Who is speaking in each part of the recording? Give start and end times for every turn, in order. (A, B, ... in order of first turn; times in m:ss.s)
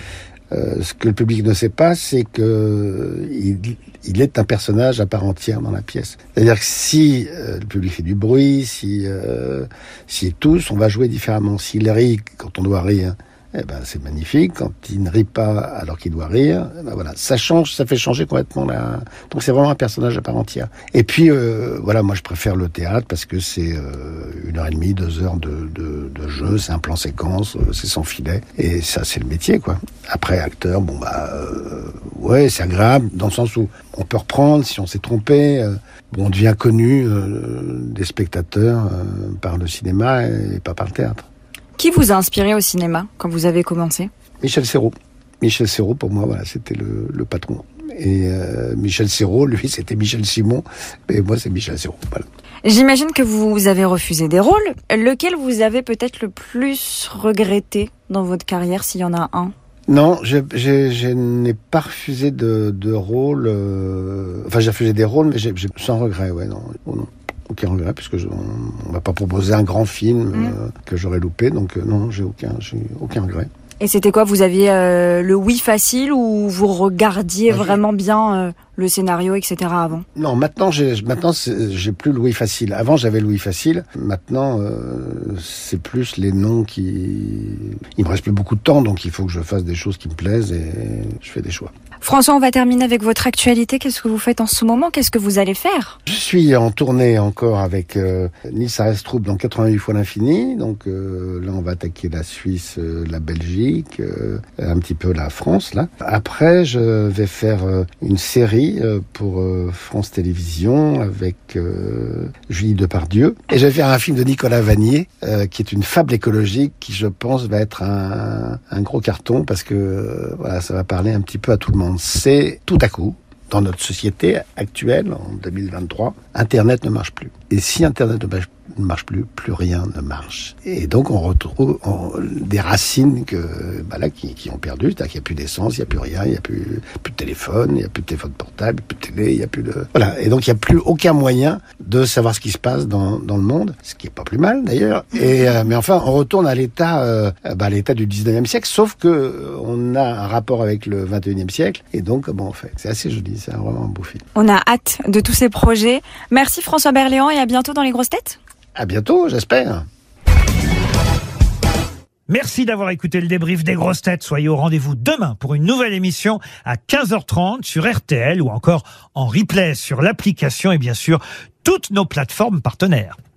0:00.5-0:41.2 A
0:41.8-0:44.1 B
0:44.4-0:52.2 A
0:52.6-0:59.5 B
0:59.9-1:13.5 A
1:13.8-1:20.0 B
1:17.5-1:17.8 A
1:20.1-1:31.7 A
1:32.0-1:36.0 B
1:36.1-2:34.2 A
2:34.3-2:38.4 B
2:38.7-2:39.8 A
2:42.3-2:53.2 C